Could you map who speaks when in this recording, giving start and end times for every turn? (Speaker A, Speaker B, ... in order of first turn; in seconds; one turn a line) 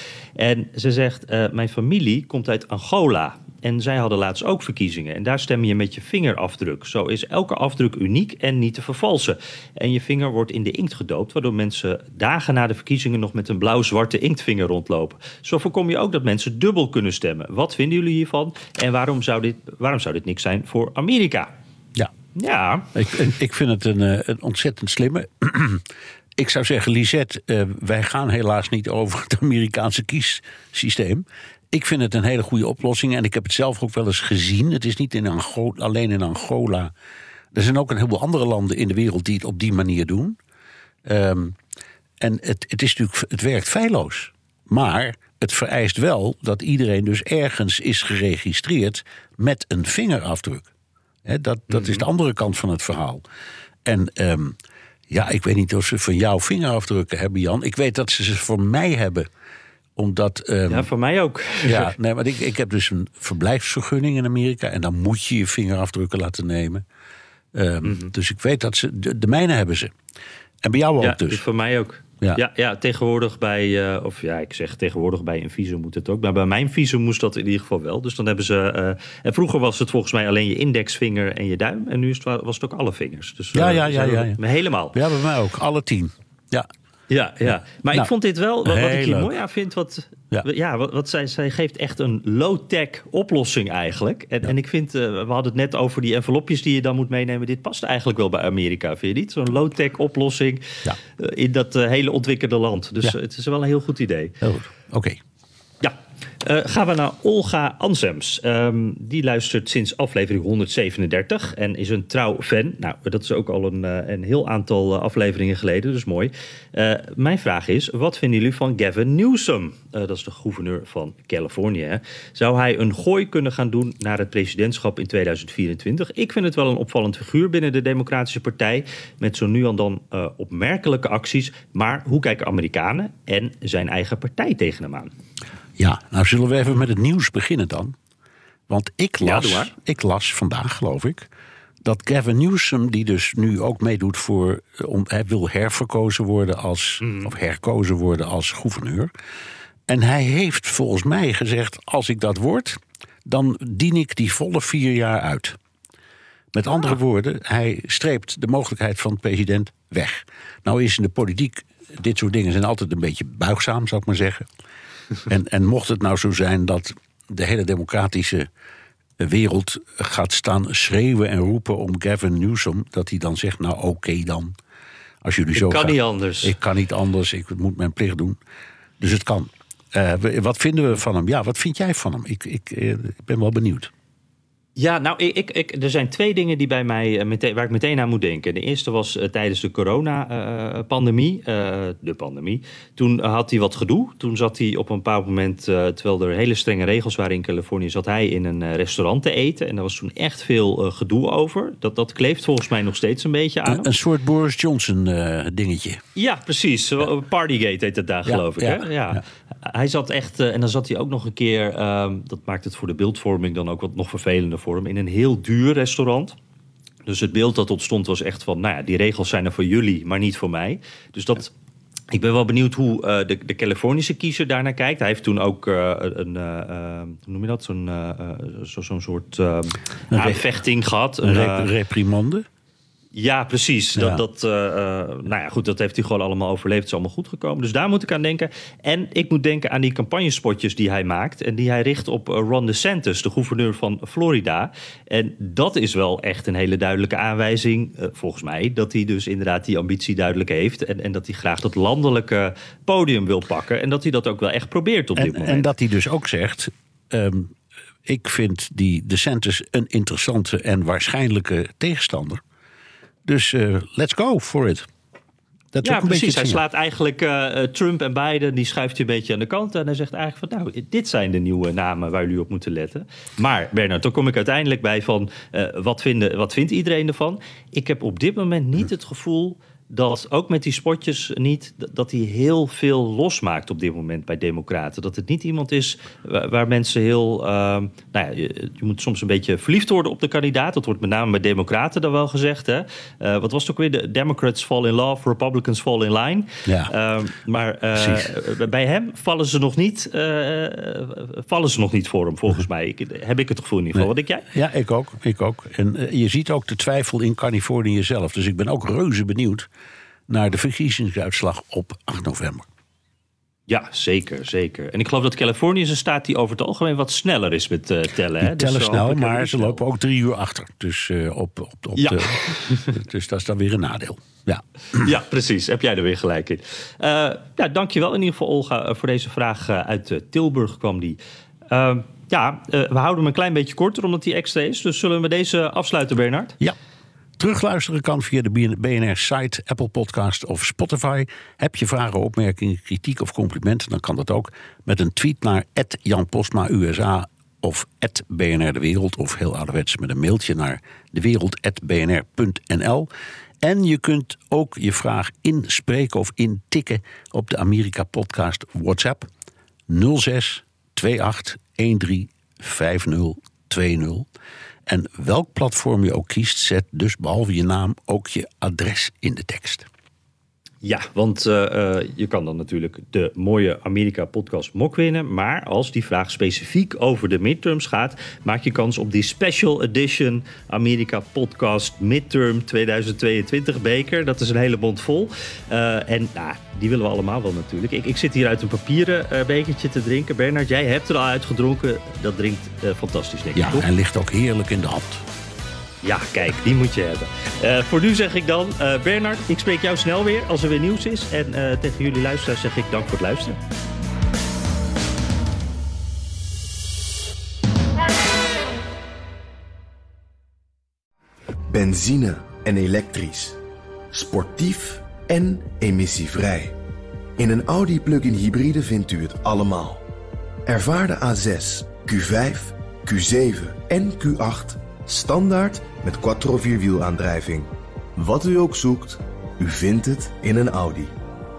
Speaker A: 0.4-21.5
Speaker A: 22.3-22.9
Speaker B: 22.9-25.8
Speaker B: 26.4-36.9
Speaker B: 37.5-40.4
Speaker B: 41.0-41.6
Speaker B: 42.2-50.7
Speaker B: 51.2-53.2
Speaker A: 51.7-52.0
Speaker B: 53.8-54.6
Speaker B: 55.1-59.3
Speaker B: 60.0-60.9
Speaker A: 60.7-61.9
Speaker B: 61.6-66.8
Speaker B: 67.5-69.9
Speaker A: 67.8-68.1
Speaker B: 70.6-71.4
Speaker A: 71.0-85.0
Speaker B: 83.5-84.4
Speaker B: 84.9-86.7
Speaker A: 87.1-104.3
Speaker B: 88.6-89.3
Speaker B: 104.4-105.2
Speaker A: 105.8-135.1
Speaker B: 135.8-137.9
Speaker B: 138.7-141.3
Speaker A: 139.2-139.7
Speaker B: 141.8-149.1
Speaker A: 147.0-147.3
Speaker B: 149.9-155.6
Speaker B: 156.5-164.5
Speaker B: 165.3-168.5
Speaker B: 169.2-174.5
Speaker B: 175.2-178.4
Speaker A: 175.5-176.5
Speaker B: 179.0-183.9
Speaker A: 184.8-203.9
Speaker B: 203.7-206.0
Speaker A: 206.2-216.3
Speaker B: 208.2-209.2
Speaker A: 217.1-221.5
Speaker A: 222.1-231.7
Speaker B: 230.1-230.4
Speaker B: 231.2-232.4
Speaker A: 233.1-255.7
Speaker B: 233.9-234.2
Speaker B: 255.2-262.4
Speaker B: 263.2-264.9
Speaker B: 265.7-266.6
Speaker A: 265.8-304.4
Speaker B: 296.6-296.9
Speaker B: 297.9-298.3
Speaker B: 303.9-309.7
Speaker B: 310.3-312.7
Speaker A: 313.7-319.8
Speaker B: 318.4-325.1
Speaker A: 322.0-322.9
Speaker A: 324.9-331.2
Speaker A: 331.7-336.6
Speaker B: 337.4-353.1
Speaker B: 353.6-359.3
Speaker B: 359.9-364.3
Speaker B: 364.9-369.9
Speaker A: 370.8-393.9
Speaker B: 393.5-395.2
Speaker A: 396.0-403.6
Speaker C: 411.7-413.6
Speaker C: 414.1-416.8
Speaker C: 417.4-420.0
Speaker C: 420.7-431.1